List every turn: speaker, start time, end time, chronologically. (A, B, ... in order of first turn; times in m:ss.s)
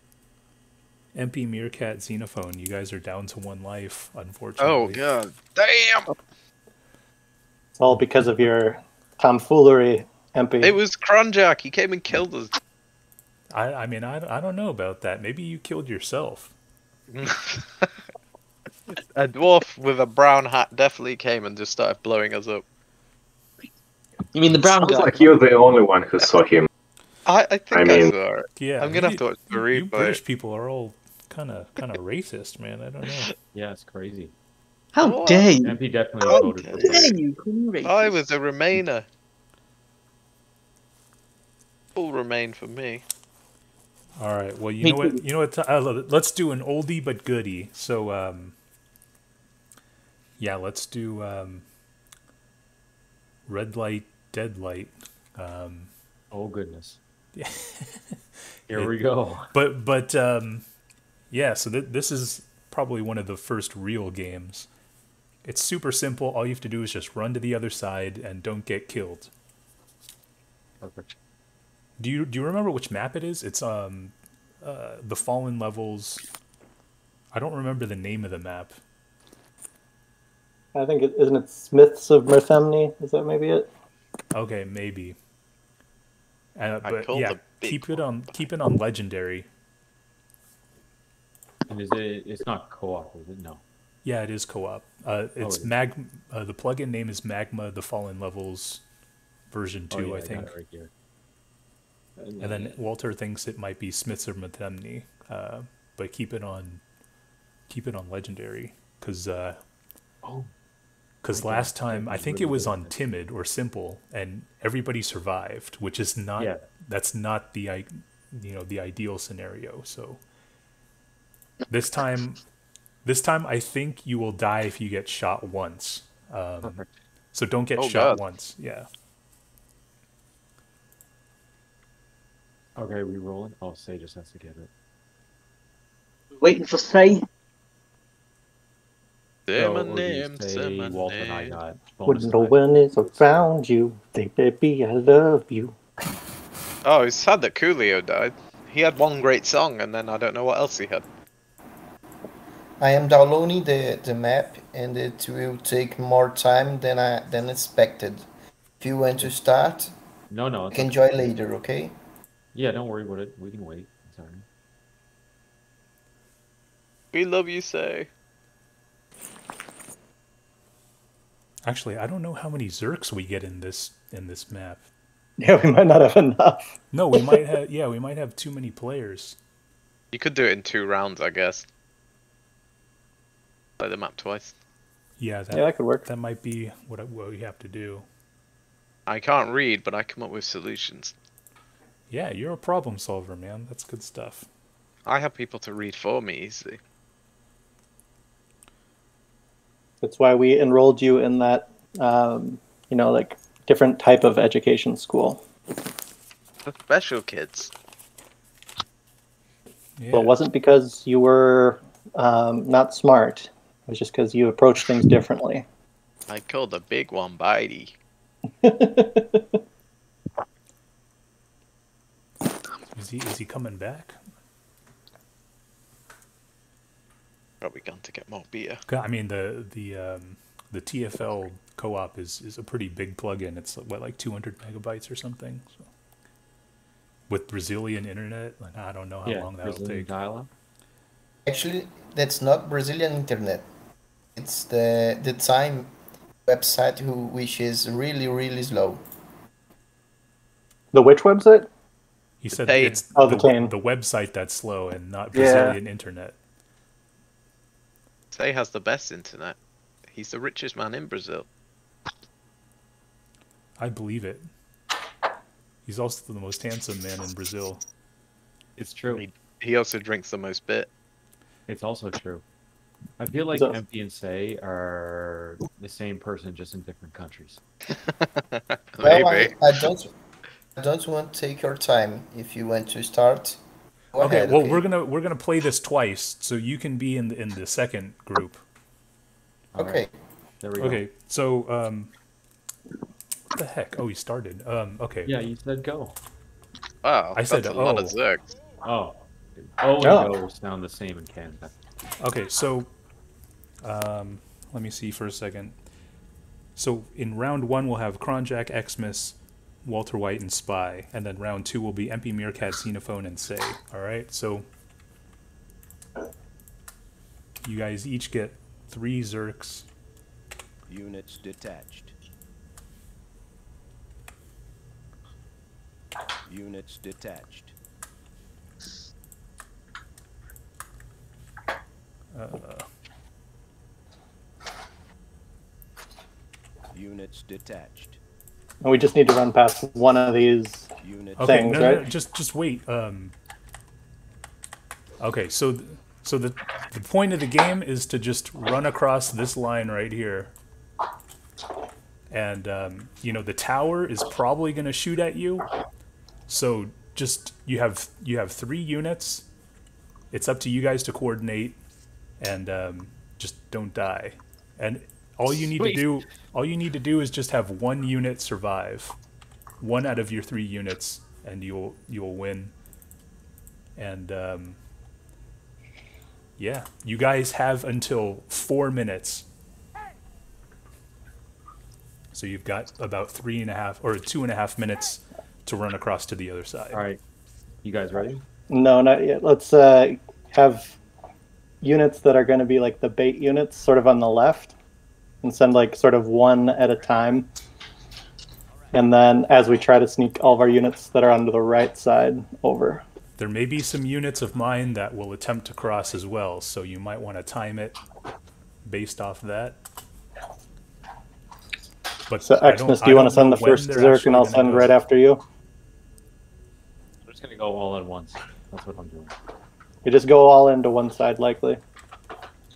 0:01.1-0:05.0 A
0:04.6-0:06.1 B
0:07.8-0:10.8 C
0:10.6-0:12.5 B
0:13.5-0:16.5 A
0:17.1-0:17.9 B
0:18.9-0:22.6 B
0:24.3-0:25.3 D
0:24.6-0:26.7 E
0:27.2-0:30.2 B
0:27.7-0:28.1 E
0:28.6-0:33.3 A
0:33.5-0:34.3 F
0:34.9-0:38.3 D
0:35.0-0:35.5 B
0:35.6-0:37.1 F
0:36.3-0:37.1 B
0:37.8-0:39.0 B
0:42.0-0:43.0 B
0:44.2-0:48.5 A
0:44.8-0:45.2 D
0:50.4-0:51.6 A
0:53.5-0:55.9 A
0:56.3-0:57.0 F
0:57.4-0:58.2 A
0:58.7-0:59.5 F
0:59.5-1:00.6 A
1:01.3-1:04.7 A
1:05.4-1:09.3 A
1:10.8-1:11.1 F
1:12.0-1:16.2 A
1:17.3-1:18.8 A
1:20.7-1:23.7 C
1:24.3-1:25.2 A
1:26.6-1:29.5 A
1:26.8-1:27.9 B
1:31.7-1:33.6 F
1:34.0-1:38.8 A
1:35.4-1:35.7 F
1:39.5-1:40.5 A
1:39.9-1:40.9 F
1:42.2-1:42.8 F
1:42.4-1:46.8 A
1:47.7-1:49.6 A
1:50.2-1:50.5 F
1:51.2-2:00.2 A
1:51.3-1:52.9 F
1:56.4-1:56.7 F
2:01.7-2:02.4 A
2:03.0-2:06.8 A
2:06.6-2:06.9 F
2:07.3-2:08.9 A
2:07.8-2:08.2 B
2:12.7-2:14.7 F
2:16.4-2:17.2 D
2:19.5-2:21.6 B
2:19.5-2:23.5 F
2:22.1-2:25.7 C
2:26.8-2:31.0 B
2:32.8-2:38.3 G
2:38.8-2:39.9 G
2:40.3-2:41.4 F
2:40.7-2:42.0 G
2:42.5-2:44.4 F
2:47.1-2:48.1 B
2:51.6-2:54.8 A
2:55.4-2:57.4 C
2:56.9-2:59.4 A
3:00.1-3:01.7 B
3:03.8-3:04.6 B
3:05.2-3:08.0 A
3:05.5-3:06.0 C
3:09.1-3:11.1 B
3:12.1-3:14.5 A
3:15.1-3:16.8 B
3:20.0-3:25.4 C
3:26.6-3:27.7 B
3:30.0-3:30.3 A
3:30.1-3:35.6 C
3:36.3-3:37.9 B
3:38.6-3:39.4 C
3:42.9-3:44.2 A
3:47.6-3:48.8 B
3:48.9-3:55.8 A
3:57.3-4:00.1 A
3:59.2-4:00.5 F
4:01.5-4:03.7 G
4:04.4-4:05.9 G
4:06.4-4:09.0 G
4:10.9-4:11.7 C
4:12.4-4:16.4 A
4:12.6-4:13.0 B
4:13.1-4:13.7 C
4:15.3-4:15.8 C
4:18.3-4:19.6 B
4:20.1-4:21.5 B
4:23.8-4:24.5 A
4:25.8-4:27.8 A
4:28.8-4:29.2 F
4:29.1-4:30.9 B
4:31.7-4:32.4 F
4:33.2-4:37.6 F
4:38.2-4:39.8 B
4:39.0-4:40.1 G
4:40.8-4:43.6 G
4:44.1-4:44.8 G
4:44.2-4:48.6 A
4:49.7-4:50.0 F
4:49.8-4:50.1 G
4:50.6-4:51.0 F
4:50.8-4:52.1 A
4:53.5-4:55.3 A
4:55.2-4:56.2 F
4:57.0-4:58.5 B
4:57.3-4:58.2 A
4:58.8-5:01.7 F
5:00.0-5:00.3 C
5:02.2-5:02.9 A
5:03.8-5:05.8 A
5:06.8-5:14.7 A
5:17.6-5:19.8 A
5:20.9-5:22.1 H
5:26.5-5:27.7 H
5:32.3-5:32.8 A
5:36.9-5:38.2 H
5:38.8-5:40.9 C
5:41.0-5:41.9 H
5:41.4-5:43.3 A
5:41.4-5:42.1 C
5:45.2-5:50.5 A
5:52.3-5:55.7 A
5:56.5-5:59.4 A
6:00.3-6:01.8 A
6:02.4-6:09.2 A
6:05.5-6:06.2 F
6:09.8-6:12.7 A
6:14.0-6:14.8 A
6:16.6-6:19.4 A
6:22.3-6:27.0 A
6:26.9-6:27.2 F
6:27.8-6:28.4 F
6:28.7-6:31.0 C
6:31.8-6:34.7 C
6:35.4-6:37.5 C
6:38.9-6:43.0 C
6:43.4-6:48.0 A
6:48.8-6:49.8 A
6:52.3-6:55.0 A
6:52.4-6:55.4 C
6:57.2-6:59.3 F
7:00.0-7:01.8 C